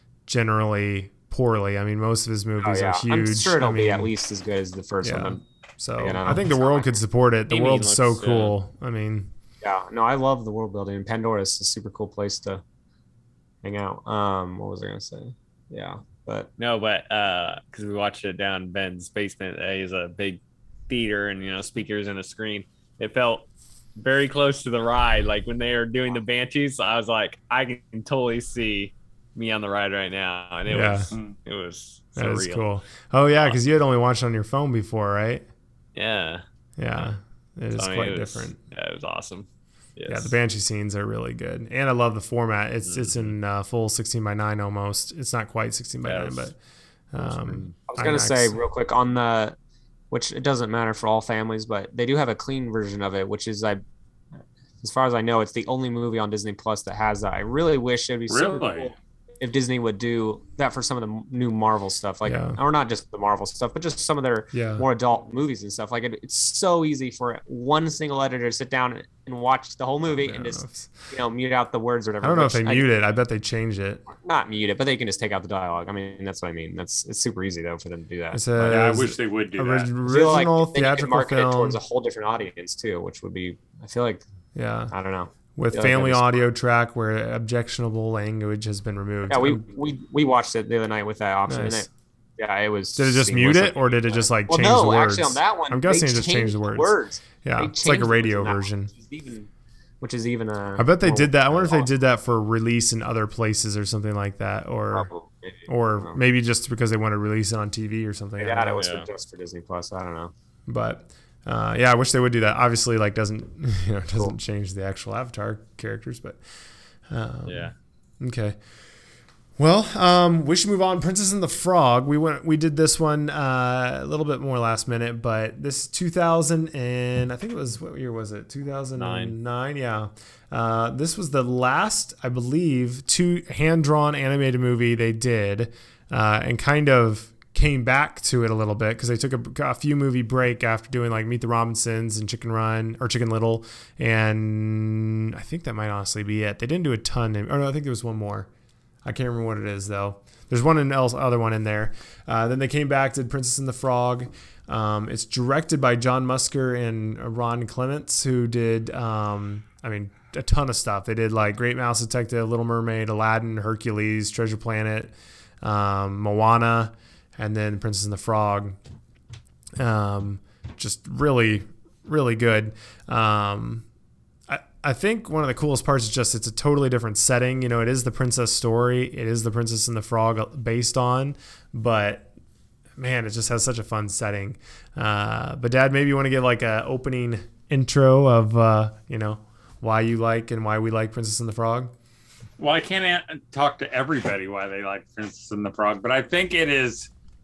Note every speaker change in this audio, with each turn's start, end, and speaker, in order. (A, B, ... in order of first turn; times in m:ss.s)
0:00.3-0:04.1 A
0:02.6-0:05.4 B
0:05.0-0:09.3 A
0:06.0-0:06.9 B
0:07.5-0:08.6 C
0:09.6-0:12.6 B
0:13.6-0:16.5 B
0:16.6-0:23.5 C
0:24.0-0:32.7 C
0:30.7-0:31.1 A
0:32.2-0:35.5 A
0:36.0-0:36.4 C
0:36.8-0:38.6 A
0:37.7-0:40.4 C
0:40.1-0:46.6 A
0:42.8-0:43.4 C
0:46.0-0:46.5 C
0:47.1-0:48.6 A
0:47.2-0:47.8 C
0:47.9-0:49.6 B
0:50.1-0:53.8 B
0:54.8-1:12.9 B
0:58.3-0:58.9 D
1:02.2-1:02.6 A
1:04.5-1:04.9 A
1:10.1-1:10.9 A
1:12.2-1:14.1 A
1:14.2-1:19.0 B
1:18.3-1:21.8 A
1:18.7-1:19.9 D
1:20.0-1:24.2 B
1:24.6-1:24.9 A
1:24.9-1:26.5 B
1:25.6-1:29.6 A
1:29.3-1:39.5 B
1:31.5-1:31.9 A
1:33.0-1:38.9 A
1:40.0-1:41.9 B
1:40.8-1:45.1 A
1:44.9-1:46.2 B
1:45.7-1:48.8 A
1:48.4-1:50.3 B
1:48.8-1:49.1 C
1:50.7-1:56.4 A
1:57.1-1:58.6 A
1:57.5-1:57.8 C
1:59.6-2:28.5 A
2:09.0-2:09.4 C
2:29.0-2:48.8 A
2:49.8-2:53.9 A
2:54.5-3:02.3 A
3:03.0-3:11.9 A
3:12.6-3:17.1 D